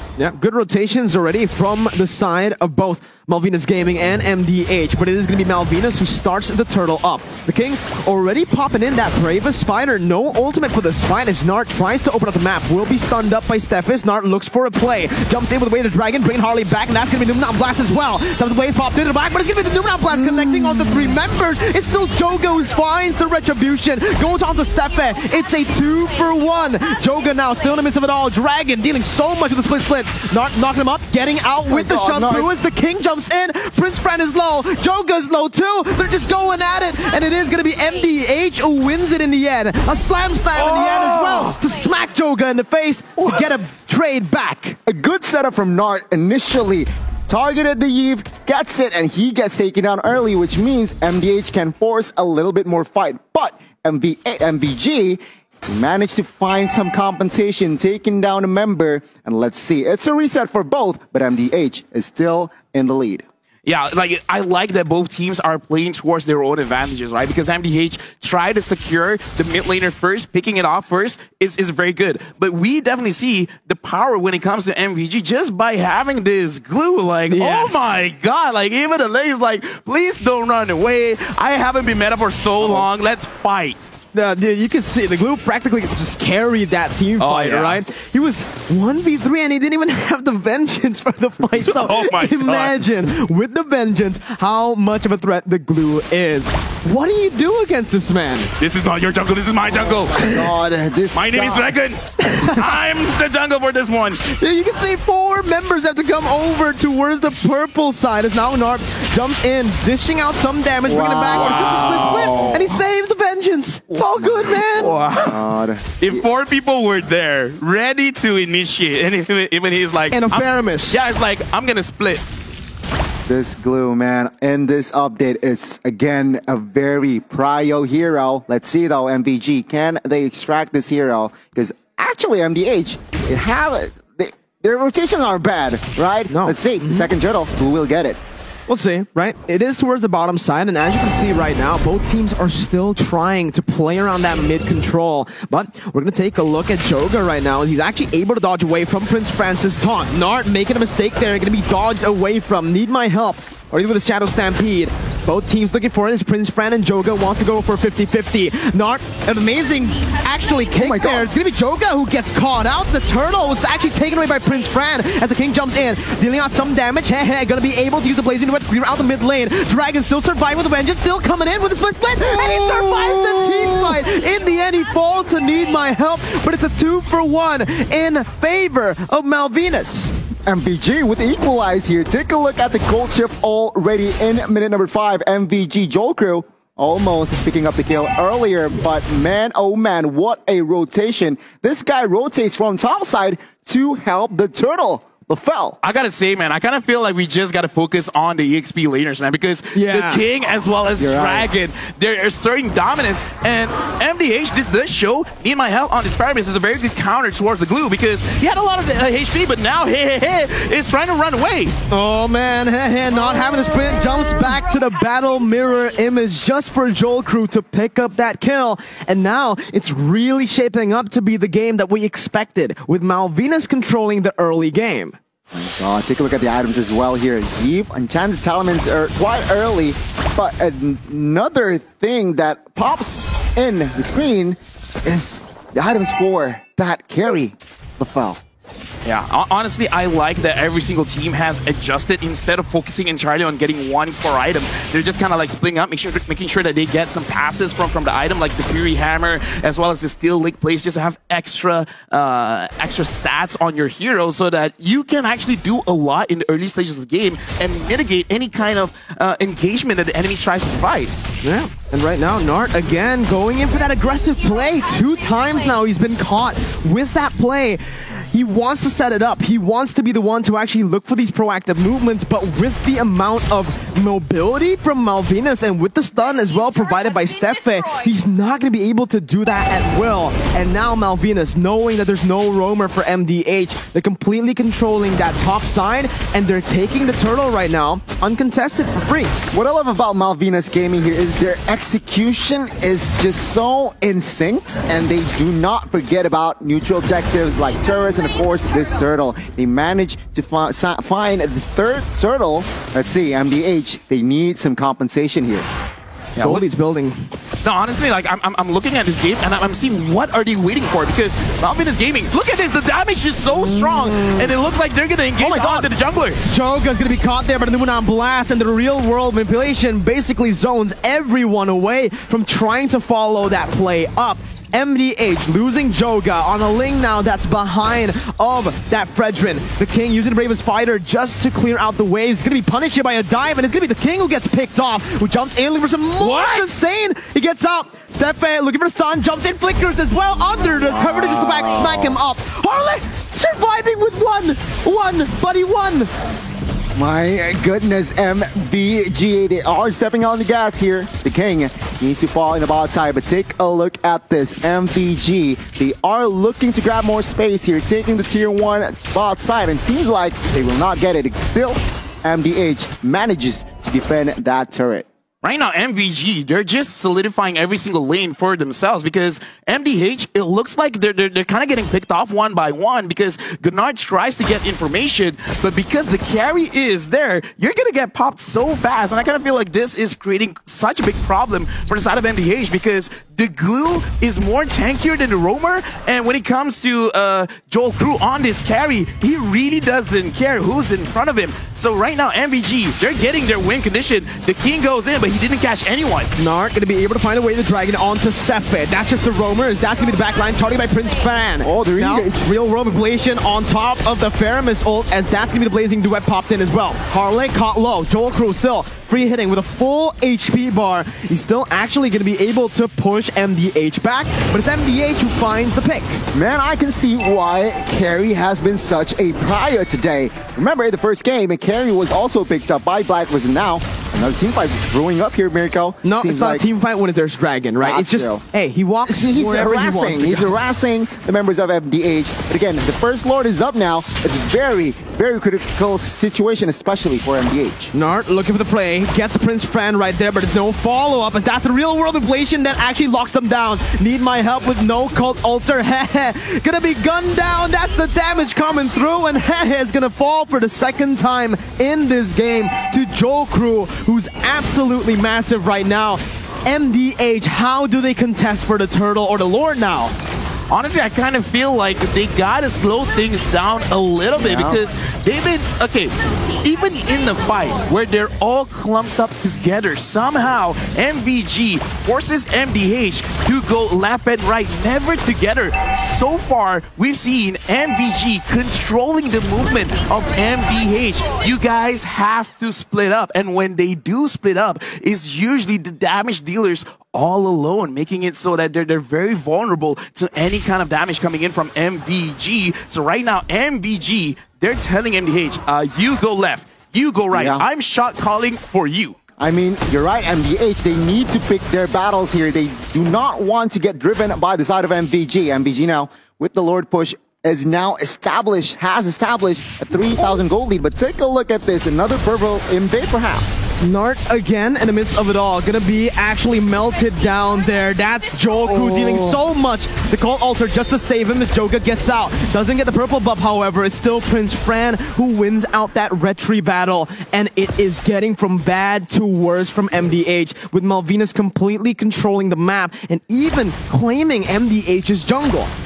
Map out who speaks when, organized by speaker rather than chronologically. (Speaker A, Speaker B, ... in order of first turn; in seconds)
Speaker A: 0.2-44.8, 77.3-78.0, 84.1-98.5, 104.3-115.0, 120.1-121.0, 136.3-137.1, 138.7-180.1, 199.7-200.2, 211.9-225.2, 261.4-289.3, 306.4-307.2, 316.4-346.1, 396.4-416.2, 426.0-430.5, 437.9-460.1, 513.8-535.7
Speaker B: 31.7-32.5, 44.9-63.2, 99.7-101.7, 110.8-112.6, 114.3-116.2, 123.3-138.2, 160.8-161.3, 172.2-174.0, 180.5-195.8, 201.0-201.5, 225.5-238.4, 289.5-305.6, 315.4-315.9, 340.8-342.2, 346.9-365.1, 401.6-402.4, 416.3-426.6, 427.8-428.4, 429.0-437.9, 464.4-464.8, 497.3-497.6, 499.4-513.6, 518.6-519.4
Speaker C: 40.6-41.5, 63.6-83.9, 87.2-87.8, 91.5-92.8, 98.6-100.5, 101.1-104.2, 111.3-112.7, 114.0-122.2, 195.8-211.7, 239.0-261.1, 306.4-306.6, 307.6-316.4, 336.2-336.7, 365.4-396.3, 460.7-499.1